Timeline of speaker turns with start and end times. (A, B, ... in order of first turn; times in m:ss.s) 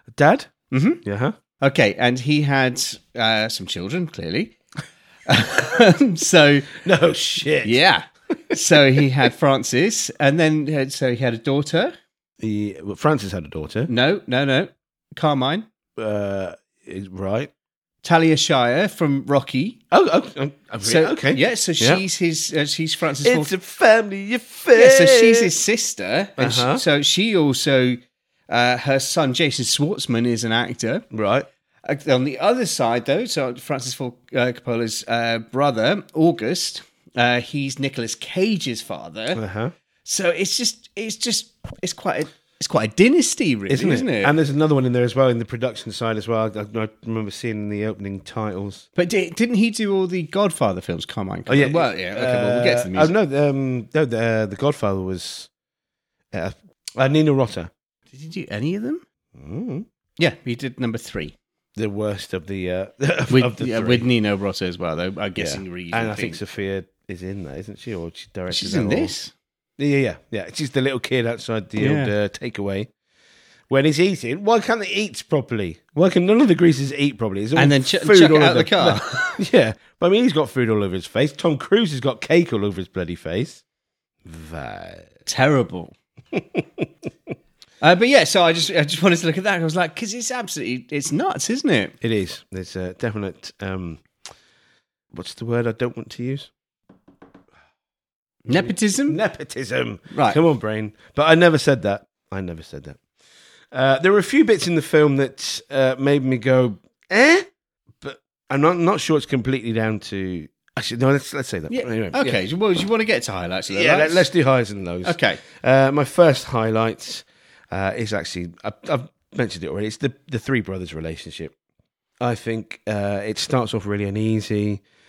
0:00.1-0:00.5 A
0:00.7-0:01.0 B
0:01.0-0:01.3 A
0:01.6-0:04.6 B
0:05.3-0:06.8 B
0:06.8-0:07.8 A
0:07.6-0:11.9 B
0:12.4-0:13.9 A
0:13.9-0:15.6 B
0:16.0-0:17.5 A
0:18.0-0:19.8 B
0:19.9-0:22.0 A
0:20.8-0:23.5 B
0:23.2-0:25.5 A
0:24.7-0:31.0 B
0:26.4-0:26.8 A
0:31.1-0:31.5 A
0:31.8-0:39.4 B
0:39.3-0:39.7 A
0:40.0-0:44.3 B
0:43.7-0:48.8 A
0:48.9-0:53.1 B
0:51.5-0:55.5 A
0:56.3-0:57.7 A
0:58.1-0:59.0 B
0:59.3-0:59.8 A
1:00.2-1:01.4 B
1:01.8-1:04.1 A
1:03.3-1:06.4 B
1:05.4-1:09.1 A
1:08.5-1:09.3 B
1:09.8-1:12.9 A
1:11.8-1:12.1 B
1:13.7-1:23.6 A
1:17.6-1:19.4 B
1:24.2-1:25.1 A
1:25.2-1:25.9 B
1:26.3-1:26.9 A
1:27.8-1:31.9 B
1:32.0-1:34.0 A
1:35.1-1:36.5 A
1:38.5-1:39.2 B
1:38.5-1:43.0 A
1:40.1-1:40.4 B
1:43.7-1:47.5 A
1:48.0-1:52.4 A
1:51.7-1:54.3 B
1:53.7-2:01.5 A
1:55.0-1:55.4 B
2:02.2-2:04.8 A